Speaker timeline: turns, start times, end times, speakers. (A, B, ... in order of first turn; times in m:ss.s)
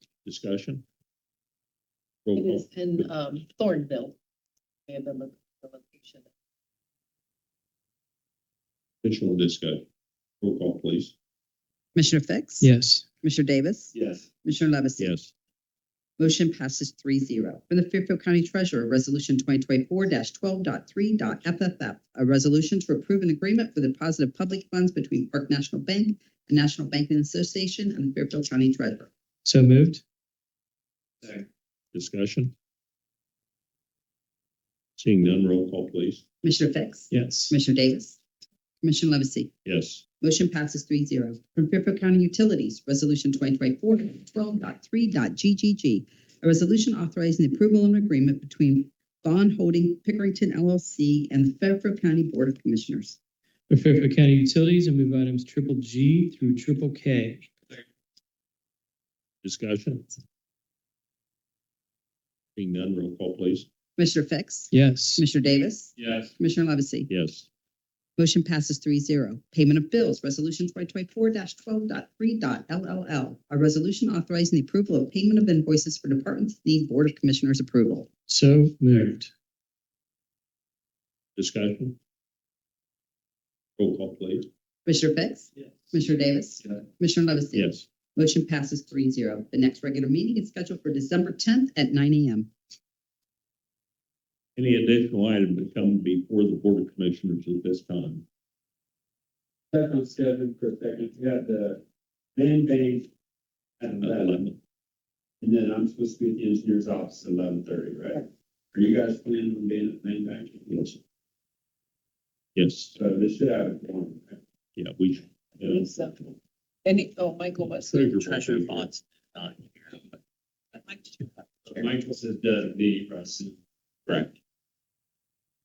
0:00.2-0:00.8 A
0:02.2-0:03.1 A
0:02.4-0:04.2 B
0:04.9-0:06.3 B
0:09.0-0:09.8 A
0:10.4-0:11.1 A
0:11.9-0:12.7 C
0:12.6-0:13.0 D
0:13.2-0:13.9 C
0:13.9-0:14.3 E
0:14.4-0:15.2 C
0:15.0-0:15.3 A
0:16.2-0:29.1 C
0:29.4-0:30.0 D
0:31.9-0:32.5 A
0:35.0-0:36.2 A
0:36.4-0:38.2 C
0:37.1-0:37.5 D
0:38.8-0:39.5 C
0:39.6-0:40.0 A
0:40.2-0:53.2 C
0:53.7-0:57.5 D
0:59.4-1:00.1 A
1:02.6-1:03.7 A
1:04.0-1:07.1 C
1:04.7-1:05.2 D
1:06.0-1:06.2 E
1:07.1-1:07.5 A
1:08.2-1:18.1 C
1:18.3-1:19.3 D
1:21.4-1:22.0 A
1:23.8-1:24.5 A
1:24.8-1:32.5 C
1:27.5-1:27.8 A
1:34.6-1:38.2 A
1:39.7-1:41.8 E
1:42.4-1:43.1 E
1:43.8-1:44.4 E
1:44.0-1:44.6 A
1:45.4-1:50.8 E
1:50.7-1:51.0 A
1:52.5-1:52.9 A
1:52.9-1:54.4 E
1:54.8-1:55.3 A
1:55.6-1:56.3 B
1:56.8-1:58.6 B
1:57.9-1:58.9 A
2:00.8-2:01.3 B
2:01.7-2:03.5 E